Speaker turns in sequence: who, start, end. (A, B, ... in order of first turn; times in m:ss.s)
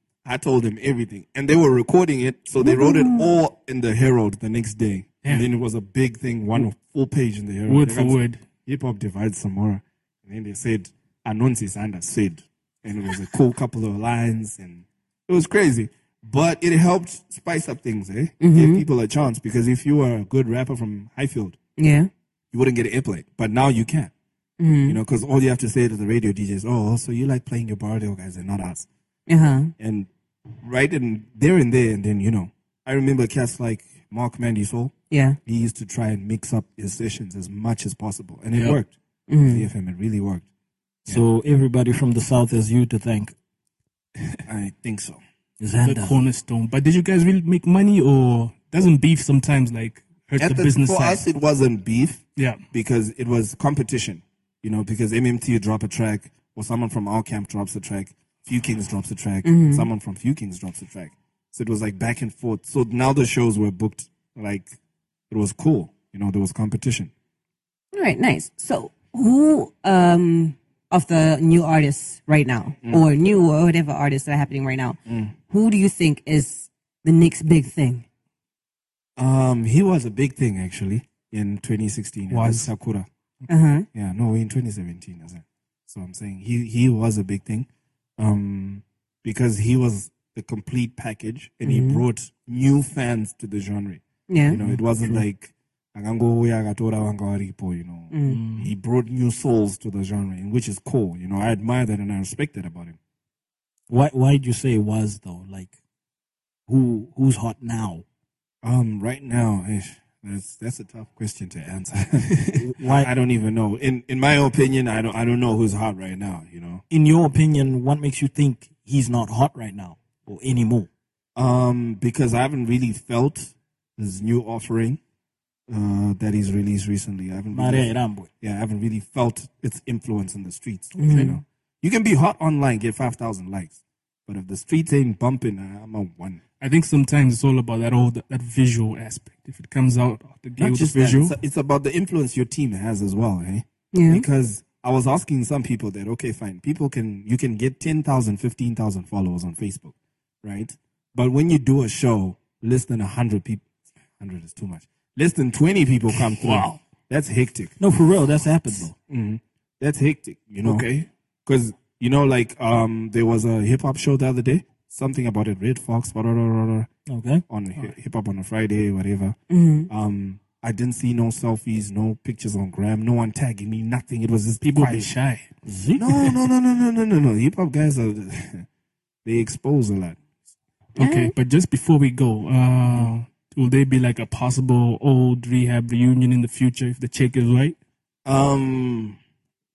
0:00.2-0:21.6 A
0:02.6-0:03.3 B
0:05.2-0:05.5 C
0:07.7-0:08.4 C
0:18.4-0:18.8 B
0:21.8-0:22.1 B
0:22.5-0:24.1 A
0:24.6-0:25.0 B
0:24.8-0:28.9 A
0:29.3-0:29.7 B
0:29.8-0:30.1 A
0:30.6-0:34.9 A
0:35.1-0:35.4 B
0:35.4-0:40.4 A
0:38.5-0:38.8 C
0:39.3-0:39.7 B
0:41.0-0:43.3 D
0:44.4-0:45.2 A
0:45.6-0:46.2 D
0:45.8-0:51.2 C
0:50.4-1:04.8 A
0:59.4-0:59.9 B
1:05.3-1:07.1 A
1:07.9-1:18.0 B
1:15.0-1:15.3 A
1:19.2-1:23.1 A
1:22.3-1:22.7 C
1:23.5-1:23.9 B
1:23.9-1:43.0 A
1:31.6-1:32.0 B
1:34.3-1:34.6 B
1:34.6-1:35.2 D
1:38.1-1:38.4 B
1:38.3-1:38.7 D
1:43.9-1:45.7 D
1:46.7-1:48.0 D
1:48.6-1:56.8 A
1:52.5-1:53.1 D
1:56.9-2:00.9 D
2:01.3-2:05.0 A
2:05.7-2:13.8 A
2:07.5-2:08.3 D
2:11.0-2:11.4 B
2:14.3-2:16.4 A
2:16.6-2:21.4 C
2:20.6-2:33.6 A
2:23.9-2:24.2 B
2:34.2-2:37.8 A
2:36.1-2:36.8 C
2:37.8-2:38.9 D
2:39.1-2:46.9 A
2:40.6-2:40.9 C
2:47.1-2:47.4 D
2:47.5-2:49.4 A
2:49.5-2:49.9 B
2:49.9-2:55.1 A
2:54.6-2:55.5 C
2:55.6-2:56.2 D
2:56.0-2:58.6 A
2:59.2-3:00.2 A
3:01.0-3:01.3 B
3:01.0-3:07.8 C
3:08.2-3:09.2 A